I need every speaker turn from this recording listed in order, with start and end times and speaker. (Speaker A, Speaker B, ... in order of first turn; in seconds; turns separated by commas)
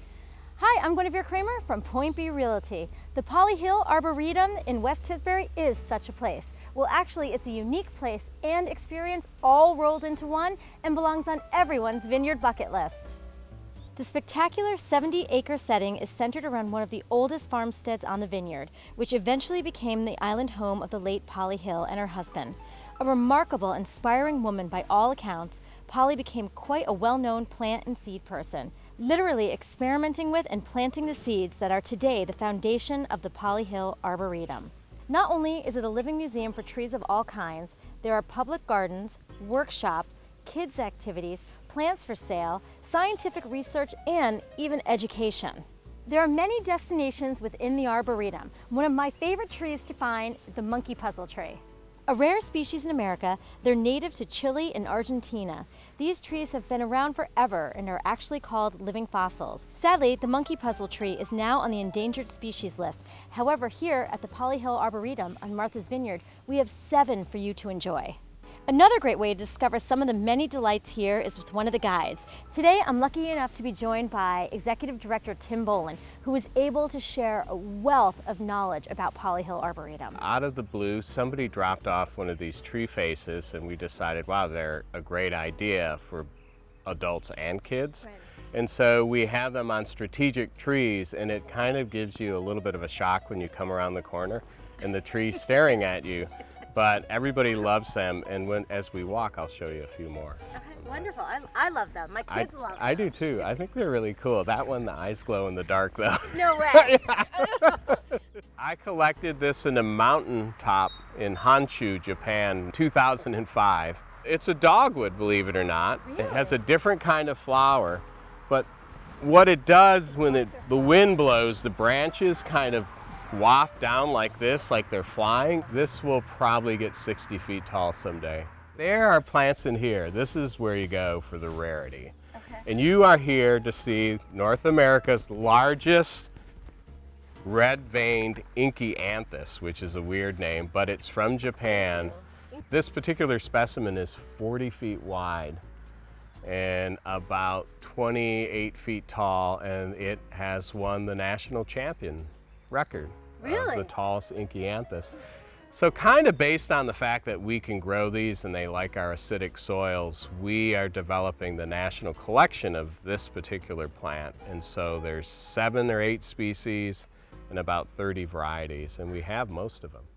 Speaker A: 0.6-13.2, Speaker A: 14.0-80.2, Speaker B: 80.2-86.3, Speaker B: 86.9-101.1, Speaker A: 100.6-103.2, Speaker B: 102.3-108.0, Speaker A: 106.3-107.0, Speaker B: 108.6-118.7, Speaker A: 116.0-116.6, Speaker B: 119.2-136.3, Speaker A: 120.2-121.1, Speaker A: 132.4-132.7, Speaker B: 137.4-145.6, Speaker B: 146.4-155.1, Speaker A: 153.4-153.9, Speaker B: 155.7-170.1